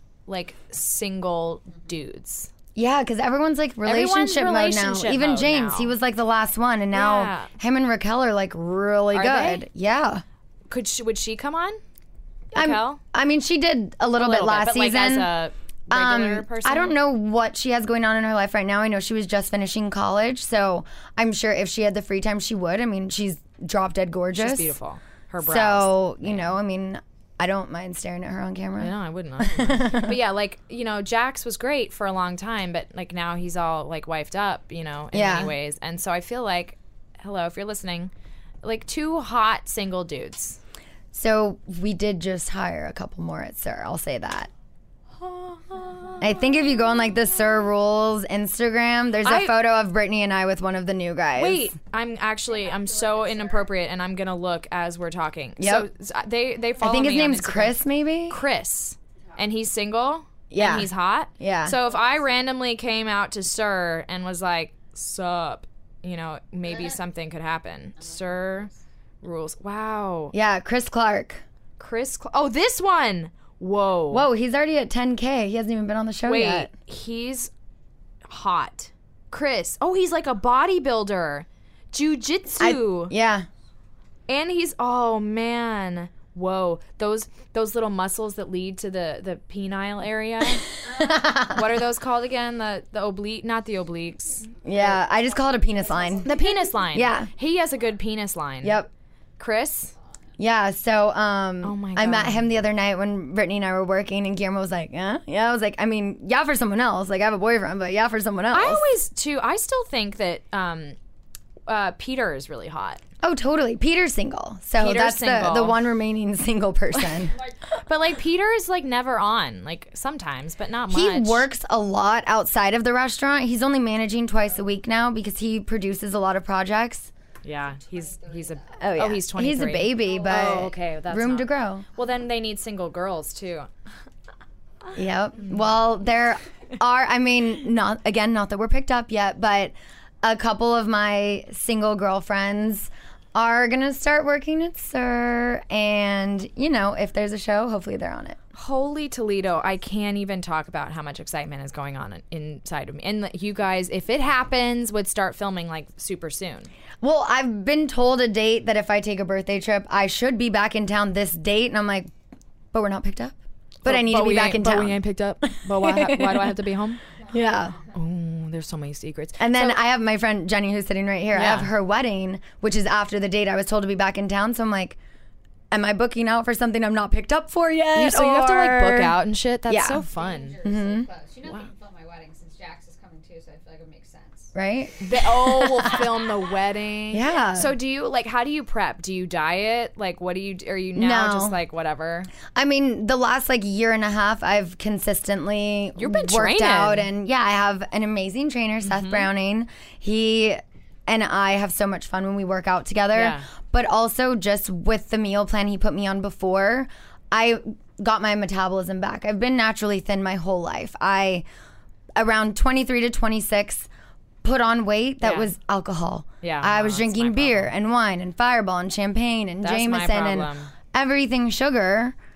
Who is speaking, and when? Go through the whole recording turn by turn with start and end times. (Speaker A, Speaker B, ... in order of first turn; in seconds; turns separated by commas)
Speaker A: 0.3-2.5, Speaker B: 2.8-10.2, Speaker A: 3.8-5.9, Speaker A: 6.9-7.5, Speaker A: 9.1-9.6, Speaker A: 10.7-11.8, Speaker A: 12.5-13.0, Speaker B: 12.5-15.3, Speaker A: 14.2-16.9, Speaker B: 15.9-24.7, Speaker A: 24.3-26.5, Speaker B: 25.4-30.1, Speaker A: 28.8-38.1, Speaker B: 35.1-35.5, Speaker A: 38.6-40.6, Speaker B: 41.1-44.5, Speaker A: 45.1-47.0, Speaker B: 46.2-51.7, Speaker A: 49.2-49.5, Speaker A: 51.4-68.7, Speaker B: 55.6-55.9, Speaker B: 56.8-58.4, Speaker B: 60.5-61.7, Speaker A: 69.2-70.3, Speaker B: 70.3-71.4, Speaker A: 71.8-74.3, Speaker B: 74.1-76.7, Speaker A: 76.2-77.5, Speaker A: 78.3-83.1, Speaker B: 82.6-83.5, Speaker A: 84.3-95.0, Speaker B: 91.0-91.6, Speaker B: 94.6-96.3, Speaker C: 96.0-96.5, Speaker A: 96.2-98.8, Speaker B: 96.9-97.3, Speaker B: 98.6-98.9, Speaker A: 99.4-99.9, Speaker B: 100.4-108.9, Speaker A: 101.6-102.5, Speaker A: 108.5-111.0, Speaker A: 111.7-113.0, Speaker B: 113.2-117.3, Speaker A: 114.8-115.8, Speaker A: 117.7-121.5, Speaker B: 120.9-127.1, Speaker A: 127.4-133.7, Speaker C: 127.7-128.8, Speaker B: 128.8-131.8, Speaker B: 134.9-148.4, Speaker A: 148.5-156.7, Speaker B: 157.0-162.1, Speaker B: 162.7-165.0, Speaker A: 163.8-167.0, Speaker B: 165.7-166.5, Speaker B: 167.3-167.8, Speaker A: 167.9-169.8, Speaker B: 169.4-175.0, Speaker A: 171.3-171.7, Speaker B: 175.7-179.2, Speaker A: 177.9-180.6, Speaker B: 179.7-180.0, Speaker C: 180.1-184.5, Speaker B: 180.6-181.1, Speaker B: 184.5-186.0, Speaker A: 185.0-192.3, Speaker B: 187.1-187.7, Speaker B: 190.9-191.6, Speaker B: 192.5-211.4, Speaker A: 195.9-197.1, Speaker A: 198.8-199.3, Speaker A: 203.1-203.4, Speaker B: 212.2-213.9, Speaker B: 214.4-222.1, Speaker A: 215.2-215.5, Speaker A: 216.4-217.7, Speaker A: 219.6-220.7